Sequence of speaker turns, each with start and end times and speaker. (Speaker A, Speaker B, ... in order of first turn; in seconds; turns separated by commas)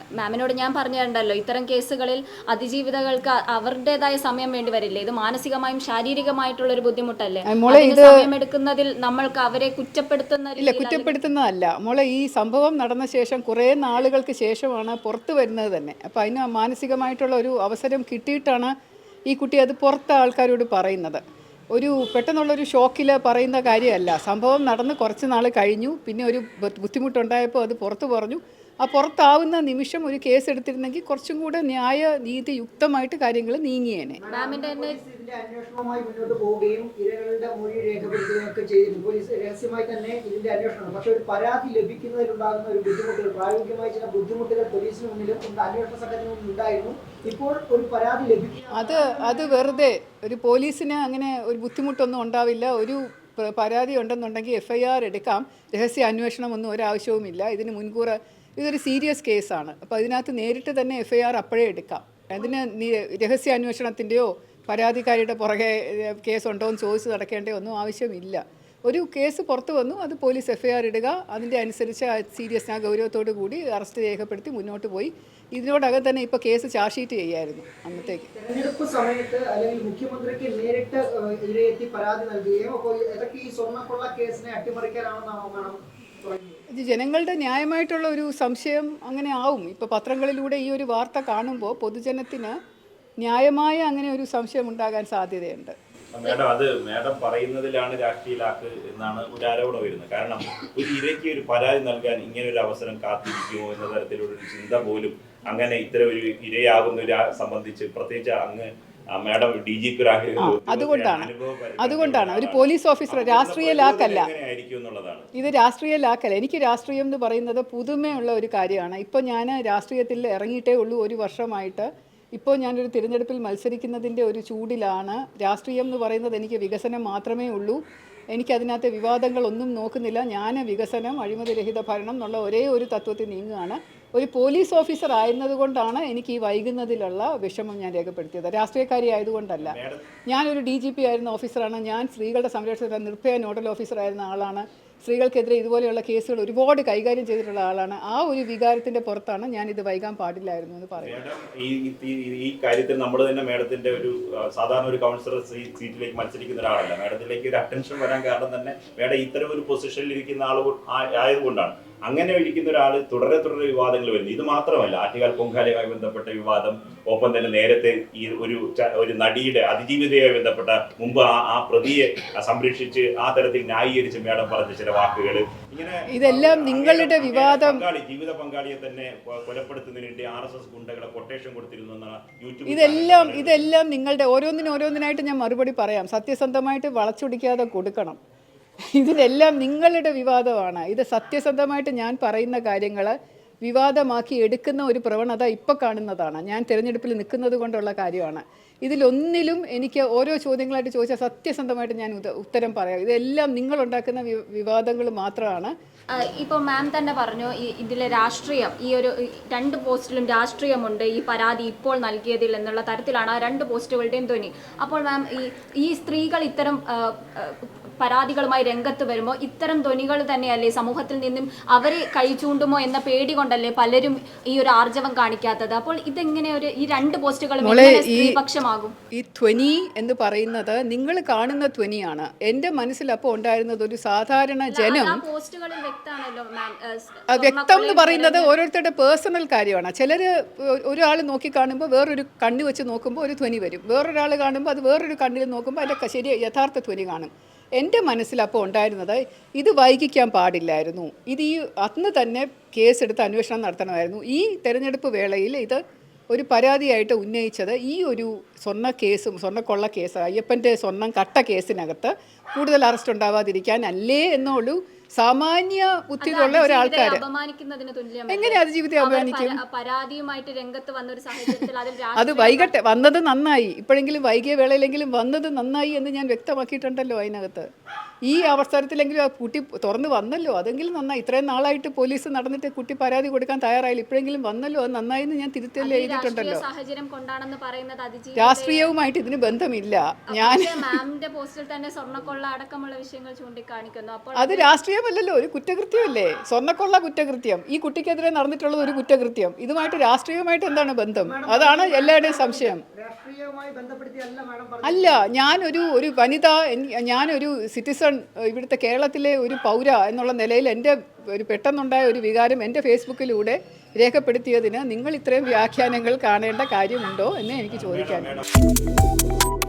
Speaker A: 0.2-11.2, Speaker B: 7.5-8.2, Speaker B: 10.6-18.7, Speaker B: 19.3-21.2, Speaker B: 21.7-34.2, Speaker C: 34.2-49.8, Speaker A: 34.3-35.0, Speaker B: 48.7-78.3, Speaker C: 78.0-86.6, Speaker B: 86.7-92.6, Speaker B: 93.2-95.8, Speaker D: 96.1-115.3, Speaker B: 110.4-114.3, Speaker B: 115.3-127.8, Speaker B: 128.3-139.8, Speaker D: 139.6-140.1, Speaker B: 140.3-151.2, Speaker D: 151.0-183.6, Speaker B: 176.1-177.9, Speaker B: 182.7-188.2, Speaker B: 188.9-205.7, Speaker A: 206.2-228.9, Speaker B: 227.6-228.4, Speaker B: 229.1-235.2, Speaker A: 234.7-238.5, Speaker B: 237.3-255.8, Speaker B: 256.3-267.2, Speaker A: 266.2-272.7, Speaker B: 268.3-269.6, Speaker B: 272.2-277.7, Speaker B: 278.3-286.6, Speaker A: 285.8-288.9, Speaker B: 288.4-291.0, Speaker A: 290.3-294.7, Speaker B: 294.4-302.8, Speaker C: 301.2-305.3, Speaker B: 304.8-318.4, Speaker D: 317.7-318.5